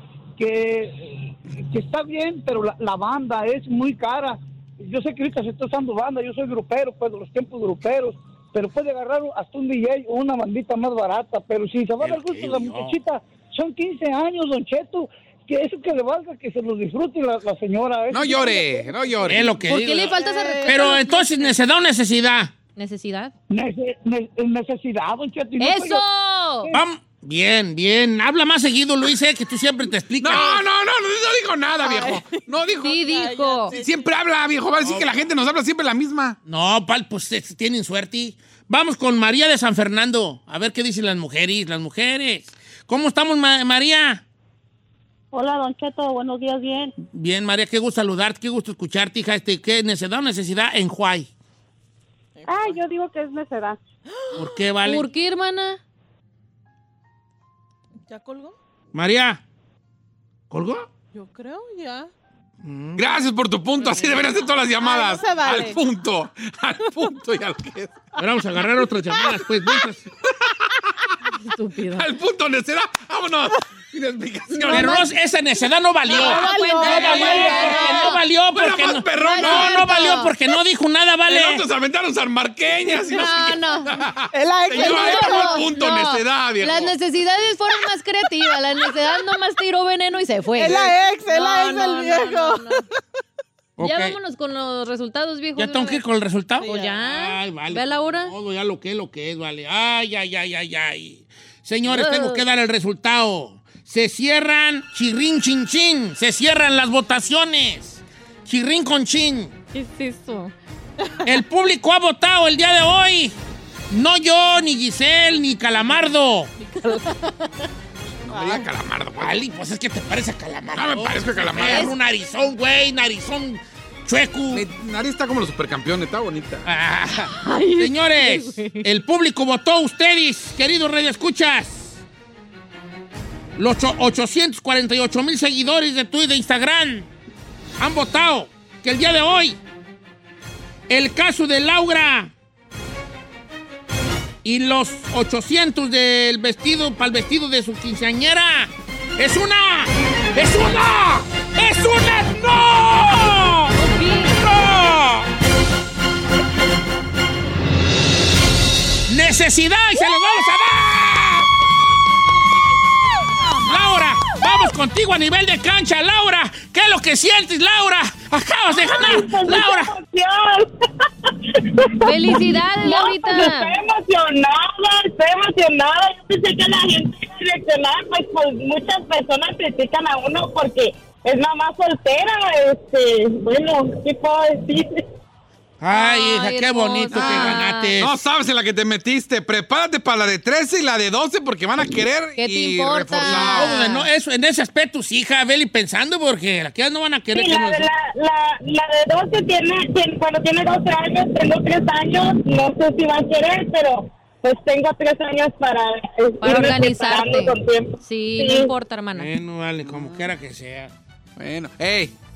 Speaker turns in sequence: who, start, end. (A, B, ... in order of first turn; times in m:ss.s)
0:00.4-0:19.3 A
0:12.0-0:13.0 B
0:18.1-0:19.4 C
0:19.2-0:22.5 B
0:19.6-0:21.6 D
0:20.1-0:21.0 E
0:22.8-0:23.3 D
0:23.5-0:26.0 A
0:25.6-0:26.7 D
0:26.7-0:30.6 B
0:30.2-0:33.0 C
0:31.8-0:34.0 E
0:32.8-0:33.7 D
0:33.7-0:36.4 C
0:34.8-0:35.3 B
0:36.4-0:44.2 B
0:45.3-0:46.9 F
0:47.0-0:51.3 B
0:52.4-0:52.8 E
0:52.5-0:53.8 F
0:54.1-0:54.4 E
0:54.4-0:55.0 B
0:54.8-0:55.8 D
0:58.1-0:58.6 E
0:58.9-0:59.4 B
1:00.5-1:00.8 B
1:01.1-1:02.1 E
1:02.6-1:03.0 B
1:03.0-1:08.0 C
1:03.8-1:05.8 E
1:08.2-1:10.0 B
1:10.3-1:10.7 C
1:11.4-1:12.1 D
1:11.9-1:15.0 C
1:14.5-1:15.1 D
1:14.7-1:21.6 B
1:16.1-1:18.1 E
1:16.1-1:18.2 D
1:17.1-1:17.8 C
1:18.5-1:19.7 C
1:19.2-1:20.3 D
1:21.3-1:26.9 C
1:23.1-1:24.0 D
1:24.3-1:25.7 E
1:24.7-1:32.8 D
1:30.6-1:32.9 E
1:33.8-1:34.2 B
1:33.8-1:36.0 D
1:35.6-1:49.5 B
1:36.6-1:37.0 E
1:36.6-1:38.3 D
1:41.9-1:42.4 D
1:49.7-1:50.5 D
1:51.2-1:53.3 B
1:53.9-1:56.5 B
1:56.6-1:57.1 E
1:58.2-1:59.4 C
1:58.3-1:58.6 E
1:59.2-2:04.6 B
2:00.8-2:01.9 C
2:01.5-2:01.9 D
2:04.5-2:06.7 C
2:06.6-2:12.0 B
2:07.4-2:08.8 D
2:13.6-2:17.1 B
2:17.8-2:19.6 B
2:20.9-2:22.3 B
2:24.4-2:33.7 B
2:33.7-2:34.4 D
2:34.3-2:35.3 B
2:39.1-2:41.5 B
2:43.6-2:49.9 B
2:48.7-2:50.7 G
2:51.2-3:05.0 G
2:52.0-2:53.8 D
3:05.8-3:08.2 B
3:05.9-3:07.9 D
3:07.1-3:13.8 C
3:12.4-3:14.1 D
3:13.2-3:17.9 B
3:17.3-3:28.7 G
3:26.4-3:29.3 D
3:29.1-3:30.9 B
3:29.8-3:30.3 C
3:31.4-3:32.1 C